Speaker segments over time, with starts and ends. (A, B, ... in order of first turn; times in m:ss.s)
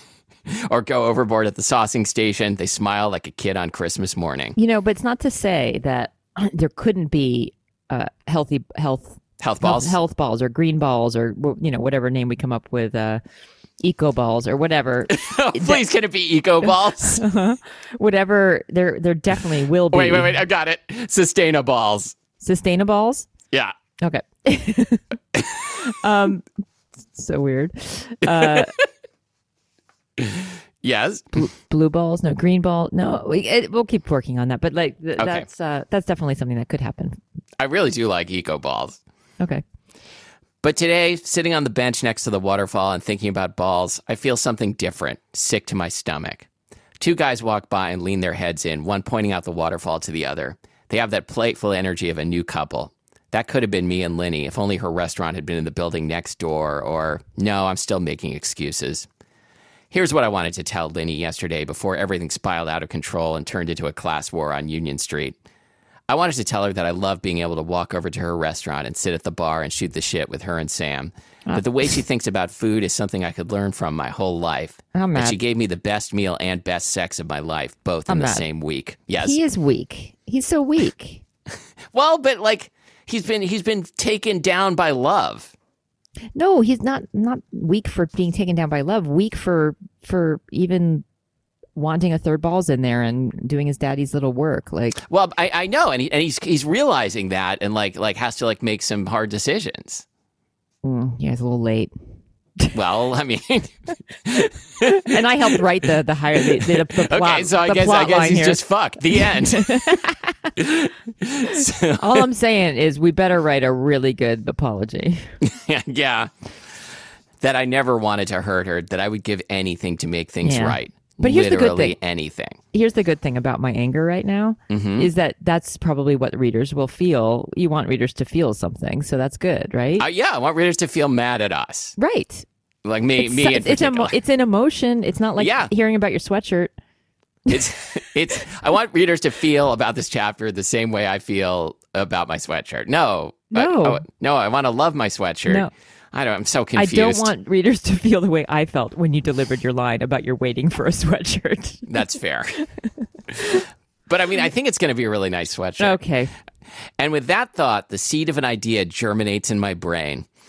0:00.5-0:04.6 A
0:04.6-0:13.2 B
0:09.4-0:10.0 A
0:13.8-0:15.8 B
0:15.1-0:17.2 A
0:16.6-0:20.4 B
0:19.9-0:22.2 A
0:22.4-0:23.3 B
0:24.0-0:26.5 B
0:25.4-0:25.6 A
0:27.1-0:28.7 B
0:28.3-0:28.6 A
0:30.2-0:31.4 A
0:31.3-0:37.2 B
0:35.2-0:35.4 A
0:37.6-0:39.0 A
0:40.6-0:46.5 A
0:47.0-0:59.1 A
0:59.9-1:05.4 A
1:06.1-1:19.4 A
1:14.9-1:15.4 B
1:18.1-1:18.4 B
1:19.2-1:21.2 B
1:21.9-1:25.5 A
1:26.3-1:31.0 B
1:31.8-1:35.0 B
1:35.1-1:40.0 A
1:40.8-1:41.9 B
1:42.7-1:45.6 A
1:44.8-1:48.6 B
1:46.4-1:52.2 A
1:49.1-1:50.5 B
1:52.0-1:55.3 B
1:55.4-1:56.3 A
1:57.4-2:02.6 A
2:00.4-2:02.0 B
2:02.7-2:10.0 B
2:04.7-2:05.1 A
2:10.0-2:12.0 A
2:12.0-2:12.4 B
2:12.8-2:14.2 A
2:13.2-2:16.7 B
2:15.4-2:15.7 A
2:17.5-2:27.3 A
2:23.5-2:24.0 B
2:26.8-2:32.0 B
2:31.9-2:32.6 A
2:32.8-2:33.6 B
2:33.4-2:36.0 A
2:35.8-2:36.3 B
2:37.0-2:40.3 A